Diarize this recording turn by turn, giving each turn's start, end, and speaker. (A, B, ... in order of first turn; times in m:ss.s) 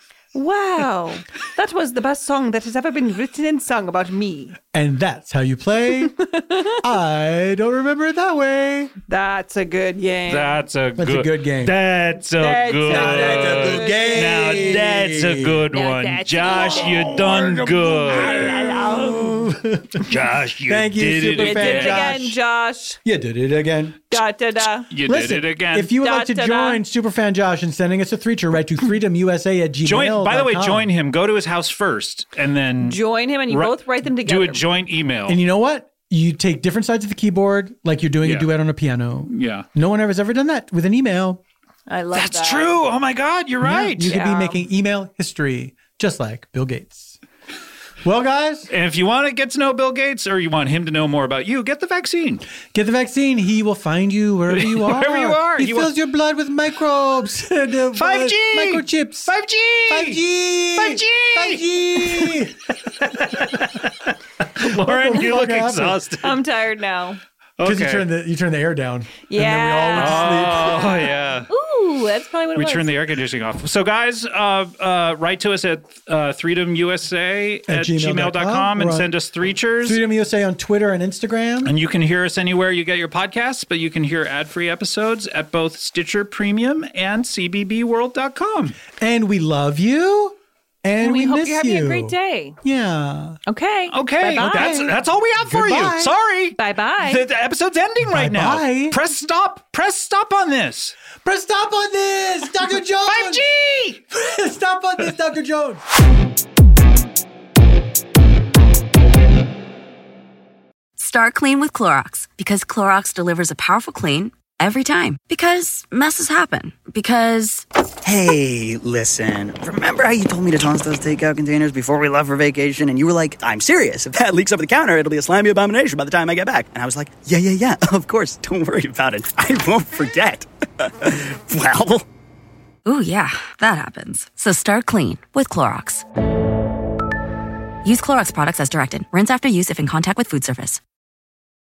0:00.3-0:04.6 A
0:04.7-0:06.2 B
0:06.0-0:06.8 A
0:06.8-0:08.9 B
0:09.1-0:10.6 A
0:10.3-0:18.7 C
0:11.0-0:11.8 B
0:12.4-0:14.8 A
0:12.9-0:15.6 B
0:15.7-0:19.6 A
0:16.5-0:20.1 B
0:20.0-0:22.2 C
0:20.7-0:22.4 B
0:21.4-0:23.0 A
0:23.0-0:24.2 B
0:24.1-0:24.9 A
0:24.9-0:25.9 C
0:25.0-0:30.9 B
0:25.9-0:26.8 A
0:29.8-0:35.4 C
0:32.8-0:34.6 A
0:35.3-0:41.4 B
0:38.2-0:38.5 C
0:39.3-0:39.7 C
0:41.9-0:42.8 A
0:42.2-0:44.2 C
0:43.6-0:47.2 B
0:44.1-0:44.6 A
0:48.0-0:48.7 B
0:48.7-0:52.5 C
0:52.7-0:59.3 B
0:54.5-0:55.9 C
0:58.0-1:00.2 C
0:59.9-1:02.6 B
1:00.8-1:06.4 C
1:04.6-1:06.0 B
1:06.2-1:07.2 A
1:07.6-1:08.1 C
1:07.6-1:10.9 B
1:09.3-1:12.9 A
1:10.0-1:11.5 C
1:12.6-1:20.0 C
1:17.7-1:19.1 B
1:19.8-1:21.8 B
1:21.6-1:28.8 C
1:29.0-1:33.4 B
1:31.0-1:32.6 A
1:33.5-1:34.9 A
1:33.9-1:41.0 C
1:34.4-1:36.1 B
1:36.6-1:37.3 A
1:38.0-1:39.0 B
1:41.2-1:43.4 B
1:43.1-1:44.0 C
1:44.1-1:45.8 B
1:51.0-1:57.6 D
1:58.0-2:12.1 E
2:12.8-2:16.0 D
2:17.8-2:20.8 D